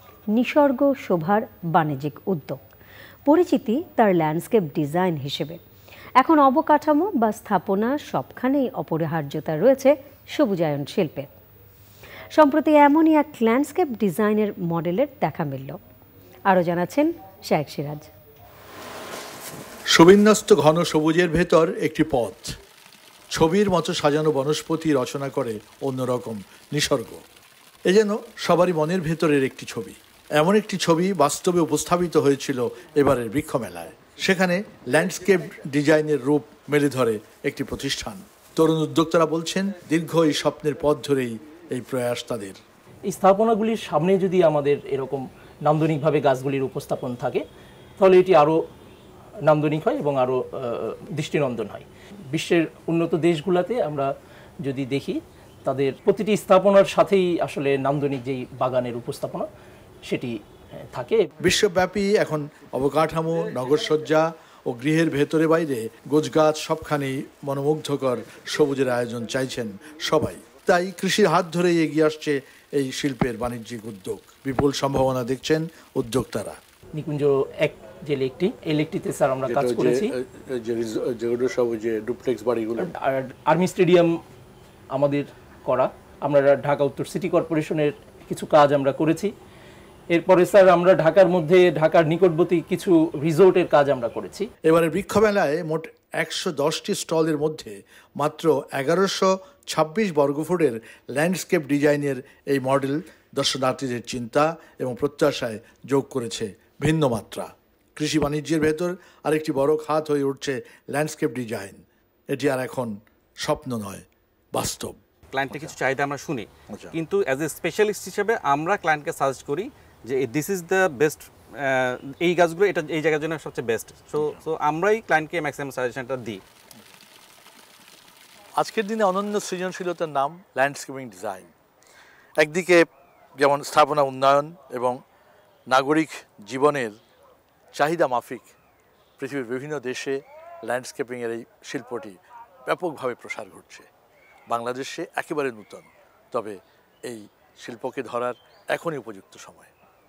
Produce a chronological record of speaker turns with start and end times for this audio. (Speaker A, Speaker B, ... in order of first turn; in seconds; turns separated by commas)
Speaker A: 0.3-2.6, Speaker A: 3.3-5.6, Speaker A: 6.2-11.3, Speaker A: 12.3-15.8, Speaker A: 16.5-18.1, Speaker B: 19.9-22.6, Speaker B: 23.3-27.2, Speaker B: 27.9-42.6, Speaker C: 43.1-47.4, Speaker C: 48.0-48.6, Speaker C: 49.5-54.1, Speaker C: 54.6-59.5, Speaker C: 60.1-61.3, Speaker B: 61.4-76.6, Speaker C: 77.0-80.1, Speaker B: 79.5-82.9, Speaker C: 82.8-84.1, Speaker C: 84.9-89.3, Speaker C: 90.1-94.5, Speaker B: 94.7-115.0, Speaker D: 115.3-126.4, Speaker B: 128.6-131.5, Speaker B: 132.4-132.8, Speaker B: 133.4-135.0, Speaker B: 135.7-137.0, Speaker B: 137.7-138.5, Speaker B: 139.2-143.9, Speaker B: 144.5-149.7